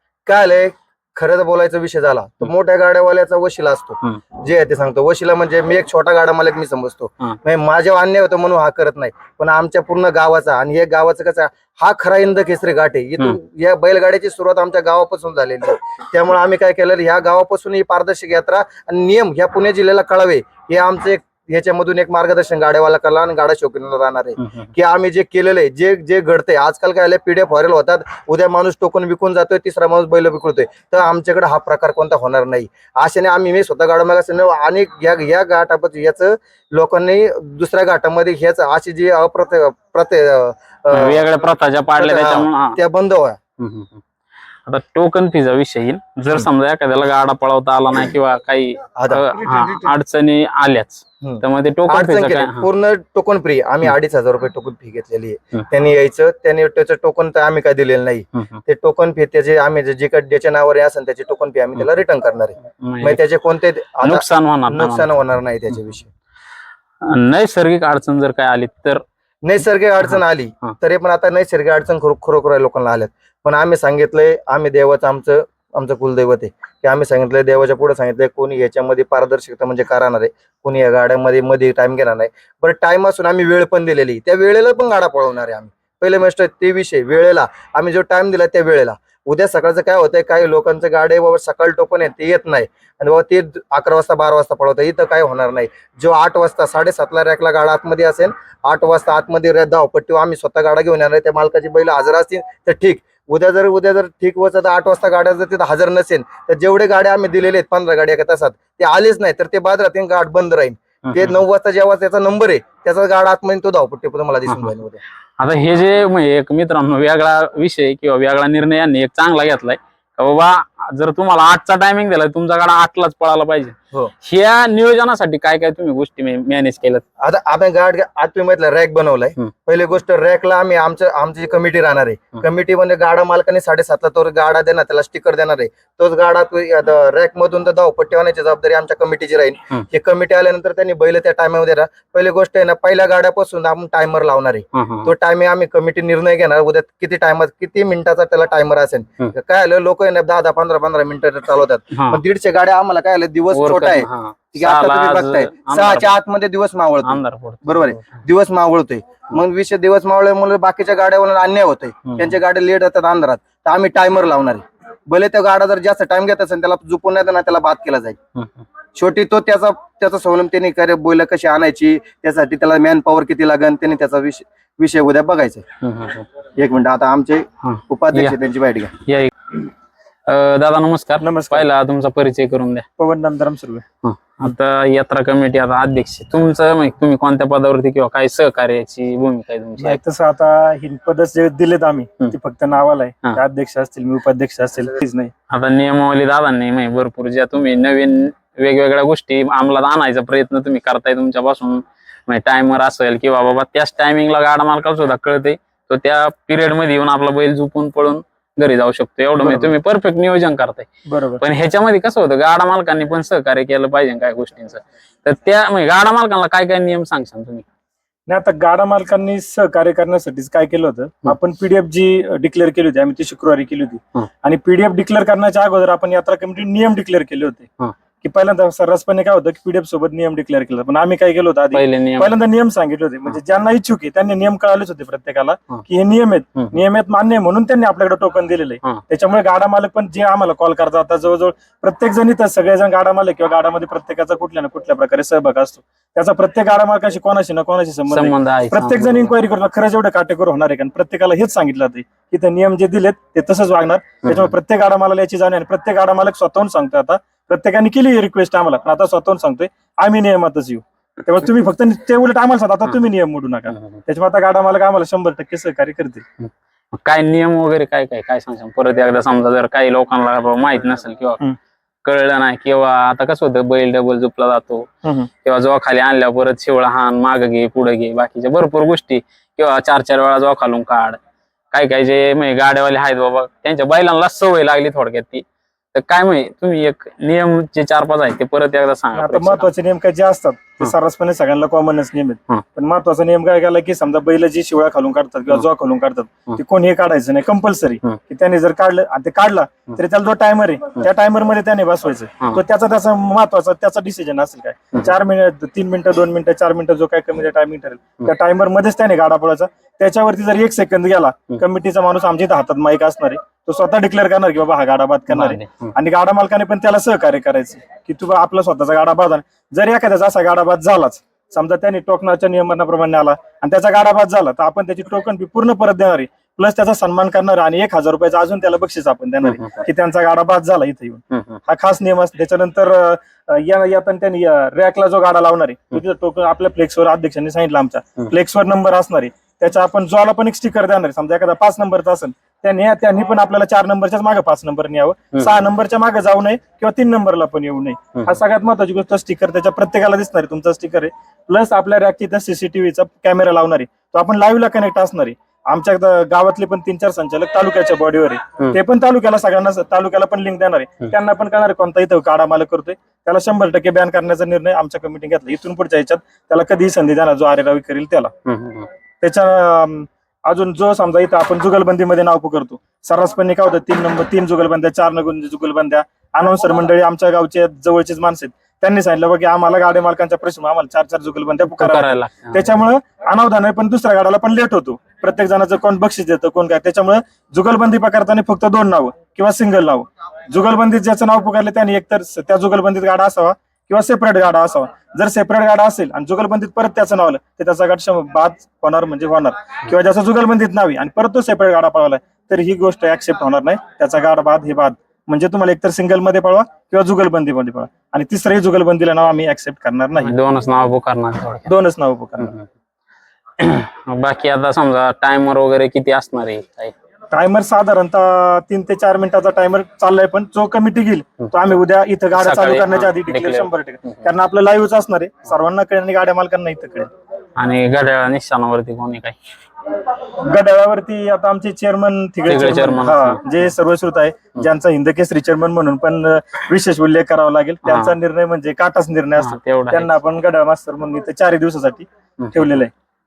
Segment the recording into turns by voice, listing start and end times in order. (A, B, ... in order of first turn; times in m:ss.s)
0:00.3-0:41.3 A
0:24.4-0:24.7 B
0:40.9-0:42.8 B
0:42.0-0:43.4 A
0:43.6-0:44.0 B
0:44.7-0:52.7 B
0:49.0-0:49.2 A
0:51.2-1:06.1 A
1:02.8-1:03.2 B
1:04.0-1:05.1 B
1:07.1-1:09.0 B
1:09.4-1:55.0 A
1:10.0-1:10.7 B
1:51.1-1:51.4 B
1:54.5-1:54.7 B
1:55.4-2:07.0 B
2:07.2-2:48.2 A
2:24.8-2:25.1 B
2:31.9-2:32.2 B
2:33.5-2:36.1 B
2:37.0-2:38.2 B
2:42.1-2:42.3 B
2:48.4-2:48.6 B
2:48.9-2:55.6 A
2:55.8-2:56.2 B
2:56.6-2:58.9 A
2:57.6-2:58.4 B
2:59.1-2:59.6 B
3:00.3-3:02.9 B
3:01.2-3:01.7 C
3:03.0-3:03.8 C
3:04.0-3:10.0 B
3:09.8-3:15.3 C
3:15.5-3:30.9 B
3:29.4-3:29.7 C
3:31.1-3:31.4 C
3:31.4-3:37.7 B
3:38.3-4:26.2 C
3:51.7-3:52.3 B
4:08.1-4:09.3 B
4:14.2-4:14.5 B
4:23.7-4:24.0 B
4:26.4-4:31.4 B
4:32.0-4:34.9 B
4:35.4-4:41.2 B
4:41.7-4:49.7 B
4:49.1-6:08.3 C
5:15.3-5:15.9 B
5:29.4-5:29.8 B
5:31.3-5:31.6 B
6:08.5-6:08.9 B
6:09.2-6:50.3 C
6:21.7-6:22.8 B
6:50.2-6:51.7 B
6:51.7-6:52.5 C
6:52.4-6:52.7 B
6:53.6-6:57.0 B
6:57.3-7:07.1 C
7:02.4-7:04.3 B
7:07.6-7:09.4 B
7:10.4-7:22.9 C
7:12.5-7:13.4 B
7:17.9-7:18.1 B
7:19.4-7:20.1 B